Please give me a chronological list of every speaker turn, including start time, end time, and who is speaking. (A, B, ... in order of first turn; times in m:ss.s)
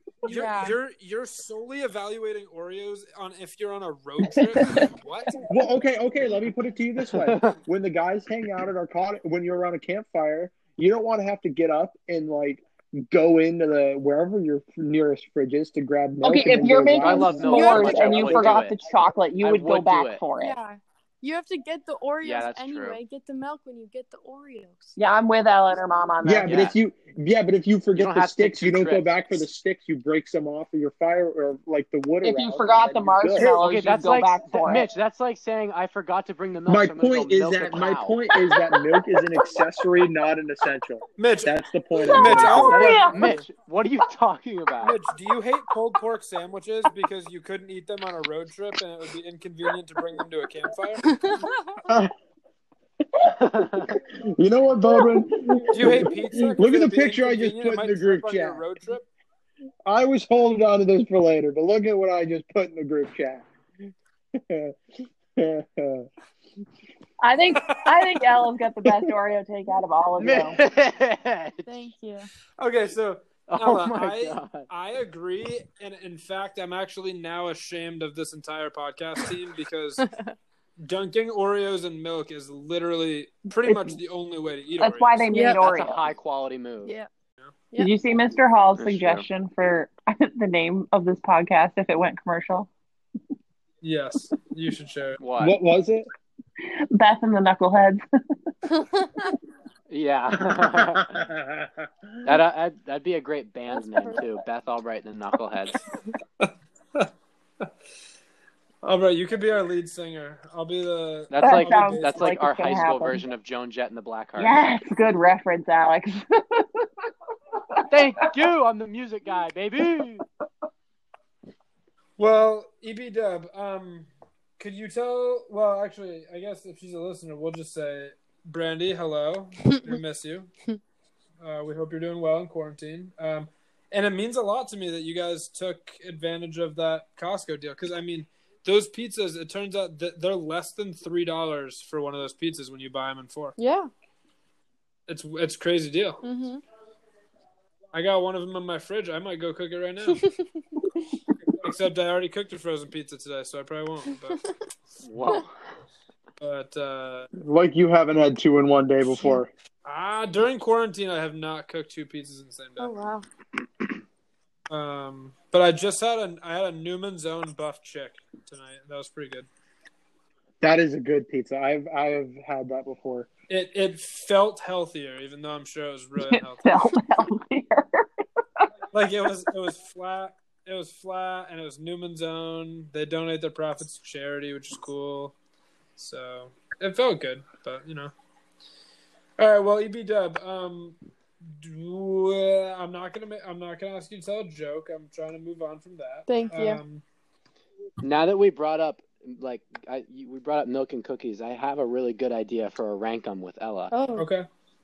0:00.2-0:05.4 A
0:00.2-0:00.8 B
0:04.5-0:04.9 C
0:05.5-0:18.5 D
0:07.2-0:07.6 E
0:16.2-0:20.6 C
0:17.0-0:18.8 E
0:17.5-0:18.5 B
0:19.4-0:20.2 E
0:20.4-0:25.0 B
0:22.2-0:23.0 E
0:25.0-0:26.7 C
0:26.2-0:33.7 D
0:26.5-0:26.7 E
0:28.0-0:29.4 E
0:32.2-0:34.9 C
0:33.4-0:38.2 E
0:36.6-0:43.0 D
0:38.3-0:39.2 C
0:41.2-0:41.5 A
0:42.0-0:43.4 C
0:42.1-0:43.4 A
0:42.4-0:45.0 E
0:44.8-0:51.3 A
0:51.1-0:51.5 B
0:51.9-0:52.1 D
0:53.3-0:54.0 E
0:53.9-0:58.6 D
0:55.7-0:59.0 A
0:59.8-1:03.5 D
1:04.3-1:04.7 D
1:05.3-1:06.1 D
1:07.2-1:10.6 C
1:07.6-1:08.2 A
1:10.2-1:11.7 E
1:11.6-1:12.3 B
1:12.6-1:20.0 A
1:13.5-1:14.7 E
1:20.0-1:20.3 B
1:20.8-1:25.3 A
1:23.6-1:24.0 C
1:24.8-1:26.0 C
1:25.3-1:25.6 B
1:25.6-1:26.9 E
1:27.8-1:32.7 C
1:28.8-1:29.2 E
1:33.8-1:35.2 A
1:35.2-1:35.6 E
1:35.4-1:36.1 D
1:36.6-1:38.0 C
1:39.0-1:39.3 B
1:39.9-1:41.2 E
1:40.5-1:41.9 D
1:42.2-1:45.8 E
1:43.7-1:44.2 B
1:46.4-1:47.1 A
1:48.8-1:52.4 A
1:51.3-1:54.6 E
1:51.4-1:53.2 C
1:54.4-1:56.9 C
1:57.7-1:58.1 C
1:57.9-2:00.2 E
2:02.2-2:04.1 A
2:04.6-2:10.5 A
2:11.4-2:23.5 A
2:23.6-2:23.9 B
2:25.1-2:26.2 A
2:26.2-2:26.6 B
2:27.9-2:30.2 A
2:30.1-2:30.4 B
2:31.6-2:34.4 A
2:35.0-2:35.5 E
2:36.4-2:37.3 A
2:37.4-2:39.5 D
2:39.8-2:42.9 A
2:42.8-2:43.2 B
2:44.7-2:49.5 A
2:50.6-2:53.3 D
2:53.5-2:56.8 A
2:56.2-2:58.0 C
2:58.9-3:05.3 A
3:06.0-3:08.1 A
3:09.4-3:11.0 A
3:11.6-3:17.0 A
3:16.3-3:16.8 B
3:18.0-3:23.9 E
3:23.9-3:24.3 B
3:24.2-3:24.5 A